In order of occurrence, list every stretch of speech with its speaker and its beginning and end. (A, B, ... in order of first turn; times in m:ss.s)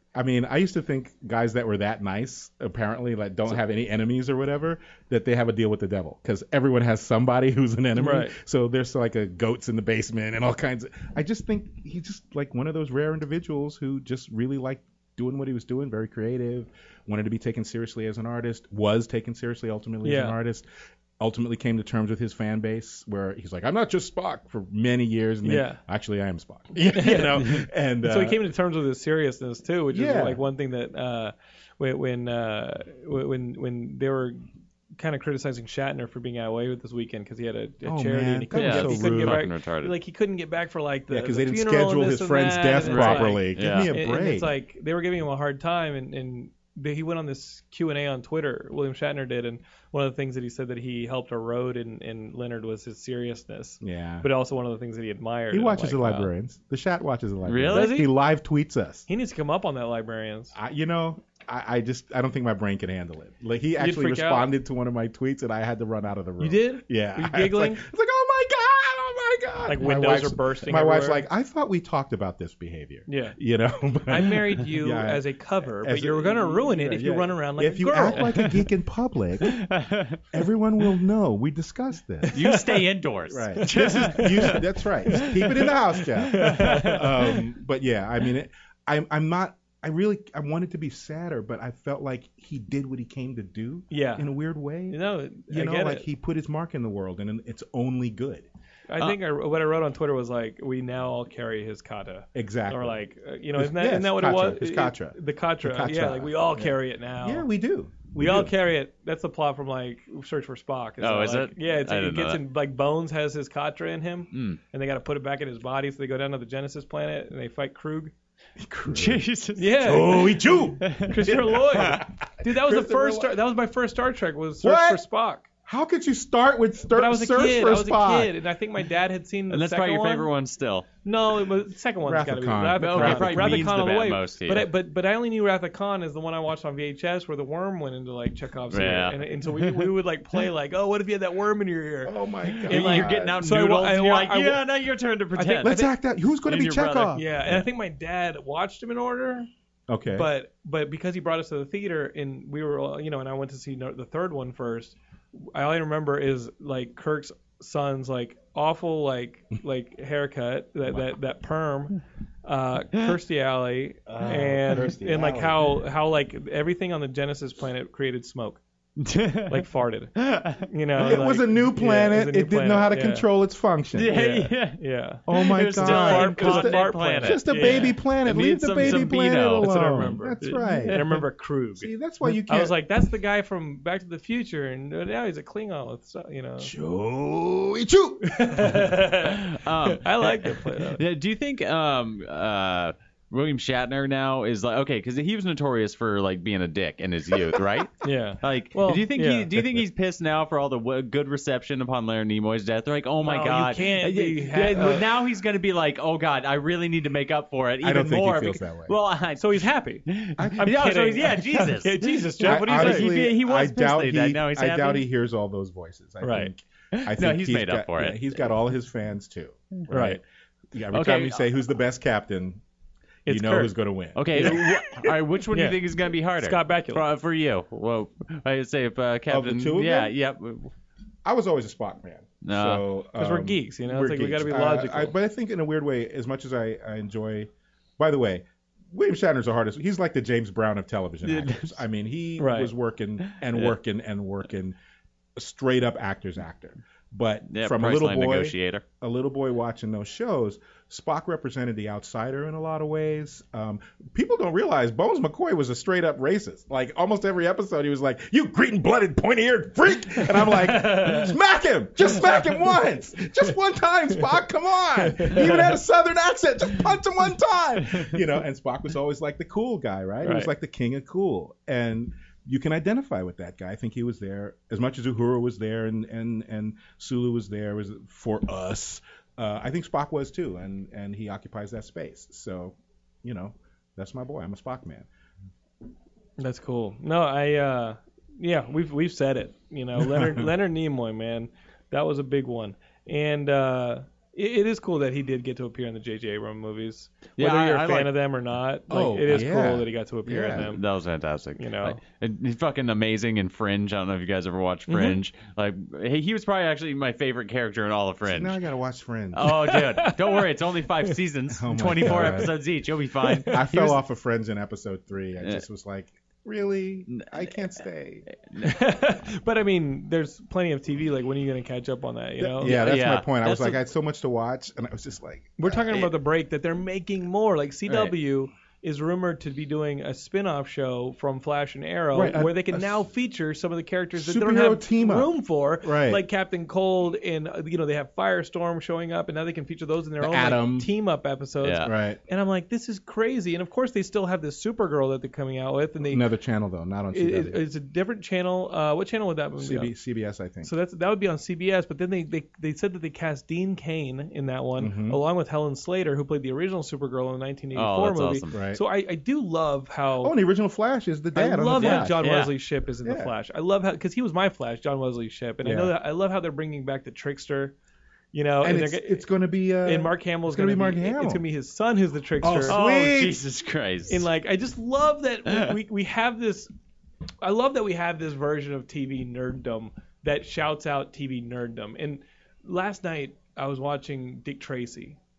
0:00.1-0:20.7 A
0:08.0-0:08.4 B
0:20.0-0:20.4 B
0:21.2-0:28.4 A
0:25.4-0:25.8 B
0:26.9-0:34.5 B
0:29.9-0:30.4 A
0:35.0-0:56.3 B
0:37.8-0:39.5 A
0:38.5-0:40.0 C
0:41.1-0:44.5 A
0:42.8-0:43.9 C
0:53.8-0:54.3 A
0:55.5-0:59.1 A
0:57.5-0:58.0 C
0:57.7-0:58.1 B
0:59.1-1:00.6 B
1:00.5-1:19.6 A
1:03.8-1:04.5 B
1:06.4-1:07.8 B
1:09.7-1:11.2 B
1:13.1-1:13.4 B
1:14.1-1:18.3 B
1:18.2-1:18.5 C
1:19.5-1:20.2 C
1:20.3-1:22.4 A
1:22.2-1:22.8 B
1:22.3-1:27.4 C
1:23.3-1:38.5 A
1:23.6-1:24.6 B
1:26.3-1:27.0 B
1:33.9-1:34.3 B
1:34.9-1:36.1 B
1:38.9-1:47.5 B
1:42.4-1:43.0 A
1:43.6-1:48.5 A
1:48.2-1:58.1 B
1:51.0-1:52.4 C
1:54.3-1:54.6 C
1:58.6-1:59.2 A
1:58.9-2:02.0 C
1:59.6-2:00.3 B
1:59.8-2:03.4 A
2:01.0-2:05.5 B
2:04.6-2:05.0 A
2:05.7-2:08.3 A
2:06.9-2:10.3 B
2:09.5-2:10.9 C
2:11.0-2:24.6 B
2:12.0-2:13.7 A
2:12.8-2:14.7 C
2:18.7-2:19.9 C
2:22.0-2:23.4 A
2:22.6-2:25.8 C
2:25.4-2:25.9 B
2:25.6-2:27.3 A
2:26.5-2:27.2 C
2:27.1-2:29.5 B
2:29.9-2:30.3 A
2:30.1-2:48.6 B
2:44.1-2:45.8 A
2:49.0-2:51.0 C
2:49.5-2:53.2 B
2:51.0-2:54.2 A
2:54.0-2:54.8 C
2:54.1-2:55.2 B
2:55.3-3:01.2 A
2:55.3-2:59.8 C
2:55.8-2:58.0 B
2:58.8-3:06.7 B
3:00.4-3:01.1 C
3:01.8-3:02.8 A
3:06.6-3:08.8 A
3:08.2-3:11.0 B
3:08.7-3:35.0 C
3:17.4-3:17.6 A
3:18.0-3:19.5 B
3:19.5-3:19.8 A
3:23.2-3:25.1 B
3:27.8-3:29.0 A
3:29.4-3:30.1 B
3:30.4-3:30.7 A
3:30.6-3:33.2 B
3:32.4-3:40.2 A
3:36.2-3:36.5 B
3:36.9-3:38.4 C
3:39.9-3:40.2 B
3:40.7-3:42.6 A
3:40.9-3:41.4 C
3:43.3-3:43.7 B
3:43.3-3:44.6 A
3:44.2-3:50.7 C
3:44.4-3:45.8 B
3:46.4-3:47.0 B
3:49.3-3:50.1 A
3:51.2-4:04.8 A
3:52.4-3:52.9 C
3:53.2-3:55.2 B
4:01.2-4:01.8 C
4:02.4-4:02.7 B
4:03.4-4:03.8 C
4:05.4-4:45.1 A
4:07.5-4:08.8 C
4:20.4-4:21.3 B
4:25.0-4:25.8 B
4:30.2-4:30.5 B
4:46.4-5:00.8 B
4:50.0-4:50.5 A
4:57.4-4:58.1 C
4:58.9-5:00.7 A
5:00.6-5:08.6 C
5:01.6-5:02.0 B
5:04.9-5:05.2 B
5:08.3-5:09.5 A
5:09.3-5:14.0 C
5:09.4-5:10.5 B
5:11.6-5:12.6 A
5:12.0-5:12.4 B
5:13.2-5:13.7 B
5:13.5-5:18.3 A
5:17.1-5:17.4 C
5:18.6-5:22.8 B
5:22.4-5:25.9 A
5:22.6-5:23.8 C
5:25.6-5:46.3 B
5:27.9-5:28.1 C
5:32.1-5:33.0 A
5:34.2-5:35.3 A
5:35.8-5:36.2 A
5:40.2-5:40.9 A
5:41.6-5:41.9 C
5:41.8-5:42.2 A
5:46.1-5:47.6 A
5:47.1-5:49.9 B
5:49.6-5:50.7 A
5:50.6-6:00.4 B
5:54.8-5:55.2 A
5:57.8-5:58.6 C
5:58.5-5:58.8 A
6:00.2-6:02.2 A
6:01.4-6:07.8 B
6:01.8-6:02.5 C
6:03.0-6:03.3 A
6:05.6-6:05.9 A
6:08.3-6:09.3 B
6:08.6-6:11.4 A
6:09.8-6:12.8 B
6:12.4-6:13.4 A
6:12.7-6:14.3 C
6:14.1-6:16.7 B
6:15.5-6:15.8 C
6:17.4-6:25.2 B